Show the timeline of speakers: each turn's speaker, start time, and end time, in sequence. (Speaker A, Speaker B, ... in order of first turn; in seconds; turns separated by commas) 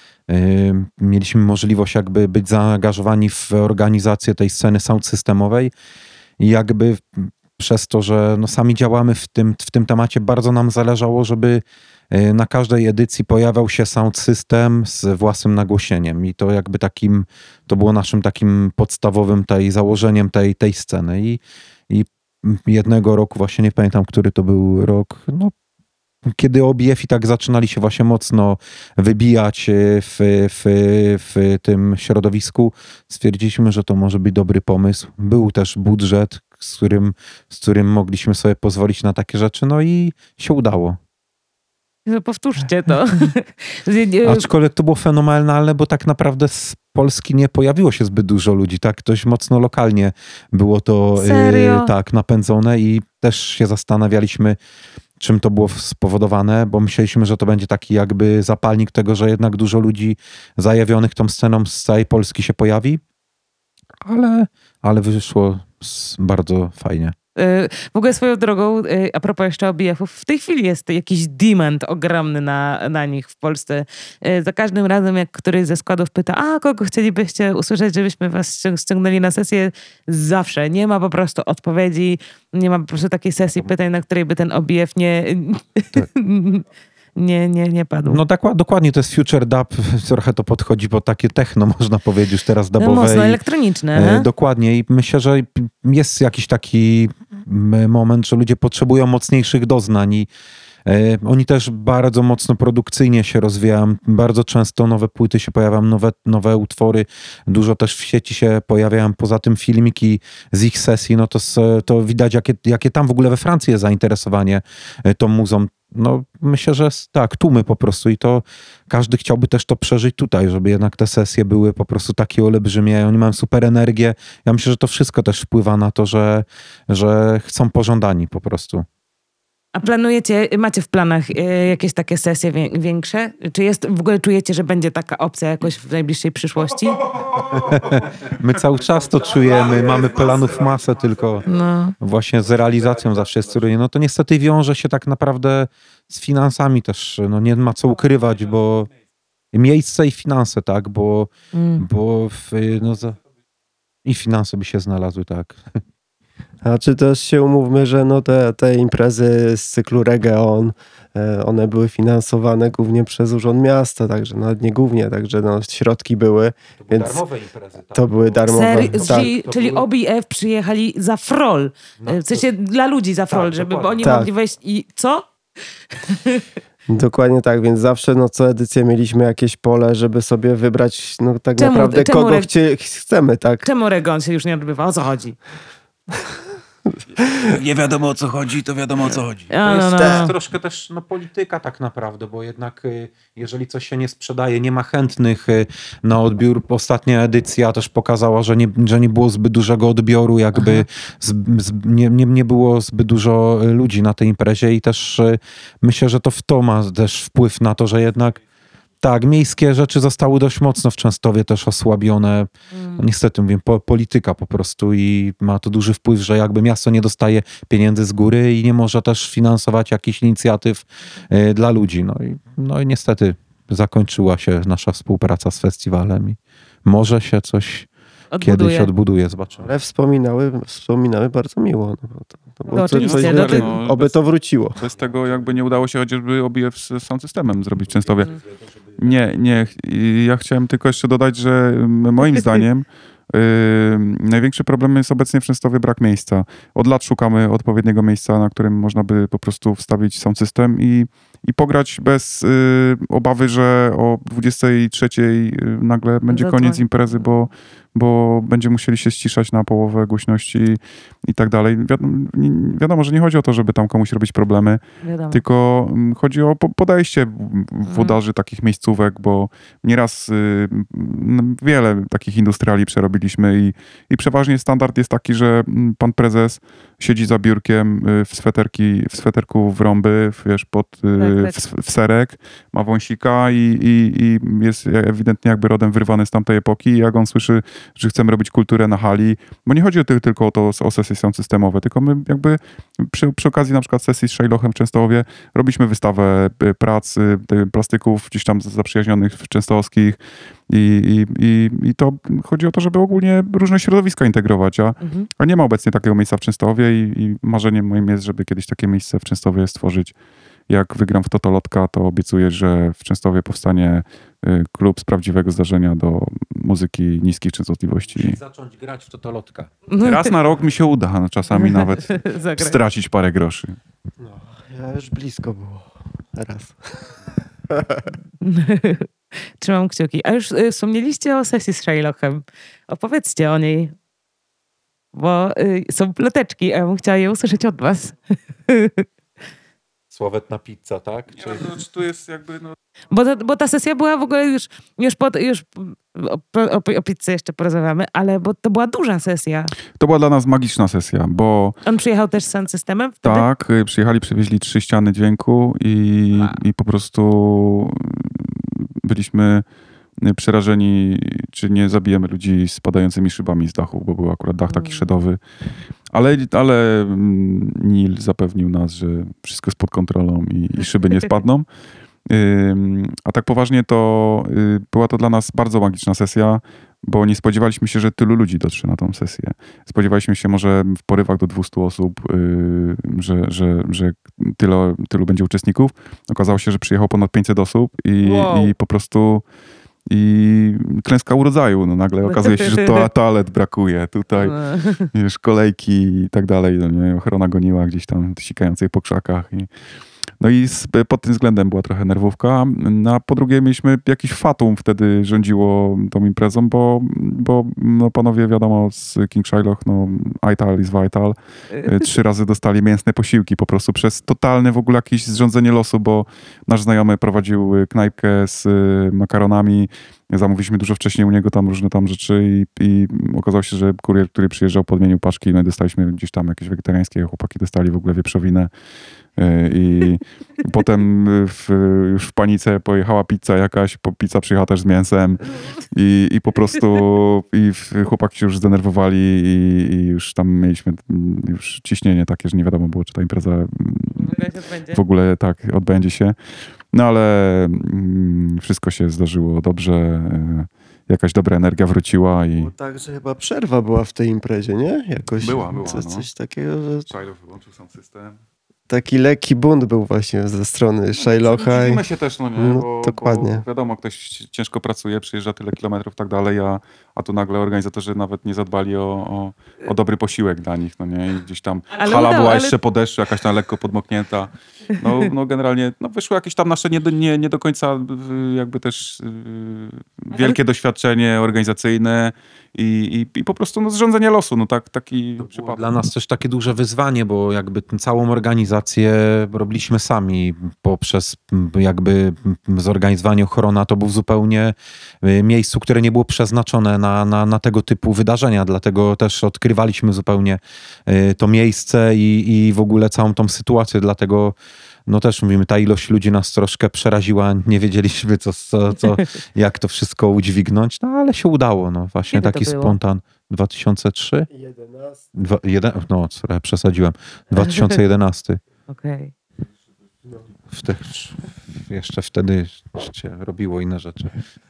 Speaker A: 0.3-5.7, Speaker A: 6.4-25.5, Speaker A: 26.2-41.0, Speaker B: 42.1-44.5, Speaker A: 44.2-54.6, Speaker B: 51.2-51.9, Speaker A: 55.2-63.0, Speaker A: 64.0-67.2, Speaker B: 67.4-86.7, Speaker B: 87.2-88.2, Speaker A: 88.1-93.4, Speaker B: 92.8-94.3, Speaker A: 93.9-100.3, Speaker A: 100.9-128.9, Speaker B: 129.8-137.1, Speaker A: 137.3-141.5, Speaker B: 141.5-141.9, Speaker A: 142.0-148.9, Speaker A: 149.5-153.2, Speaker B: 151.5-151.8, Speaker A: 154.1-155.6, Speaker C: 156.6-167.2, Speaker A: 166.8-169.9, Speaker C: 167.9-169.3, Speaker B: 168.5-175.3, Speaker A: 172.0-172.5, Speaker A: 173.3-174.1, Speaker C: 174.0-174.3, Speaker B: 176.0-176.4, Speaker C: 176.9-183.7, Speaker B: 181.6-182.5, Speaker B: 183.6-185.4, Speaker D: 187.4-189.5, Speaker B: 189.5-190.3, Speaker A: 189.6-208.4, Speaker B: 200.6-200.8, Speaker A: 209.0-227.9, Speaker B: 212.7-213.1, Speaker B: 228.3-228.9, Speaker A: 228.4-229.7, Speaker C: 229.6-234.8, Speaker B: 232.7-233.7, Speaker E: 232.8-234.2, Speaker E: 234.8-238.3, Speaker A: 237.9-239.1, Speaker E: 239.0-310.1, Speaker B: 256.3-257.2, Speaker B: 265.0-265.4, Speaker B: 267.9-268.2, Speaker B: 281.2-281.6, Speaker B: 305.0-305.3, Speaker E: 310.7-318.4, Speaker A: 318.1-319.7, Speaker B: 319.9-320.3, Speaker E: 320.0-323.8, Speaker B: 321.5-322.8, Speaker C: 324.2-326.8, Speaker C: 327.7-328.0, Speaker B: 328.4-329.1, Speaker B: 329.6-333.9, Speaker B: 335.1-338.2, Speaker B: 338.7-339.1, Speaker A: 340.1-341.7, Speaker E: 341.4-342.8, Speaker B: 343.1-349.7, Speaker E: 350.0-351.8, Speaker B: 351.9-353.5, Speaker E: 353.2-359.6, Speaker E: 360.2-365.4, Speaker B: 364.7-365.1, Speaker E: 366.1-371.7, Speaker E: 372.3-389.4, Speaker B: 388.2-388.7, Speaker E: 390.1-394.6, Speaker B: 392.2-393.1, Speaker B: 394.4-395.1, Speaker E: 395.1-399.7, Speaker E: 400.4-428.7, Speaker B: 411.7-412.1, Speaker E: 429.4-444.4, Speaker B: 444.2-445.0, Speaker E: 444.9-446.4, Speaker E: 446.9-452.7, Speaker C: 452.6-457.1, Speaker E: 455.4-456.3, Speaker E: 457.1-458.4, Speaker C: 458.9-462.0, Speaker E: 461.1-485.9, Speaker C: 462.6-463.6, Speaker B: 472.0-472.8, Speaker A: 485.4-504.6, Speaker A: 505.1-514.5, Speaker B: 512.3-513.0, Speaker C: 514.5-515.3, Speaker A: 515.3-518.6, Speaker B: 517.6-518.0, Speaker B: 518.9-519.3, Speaker A: 520.7-524.4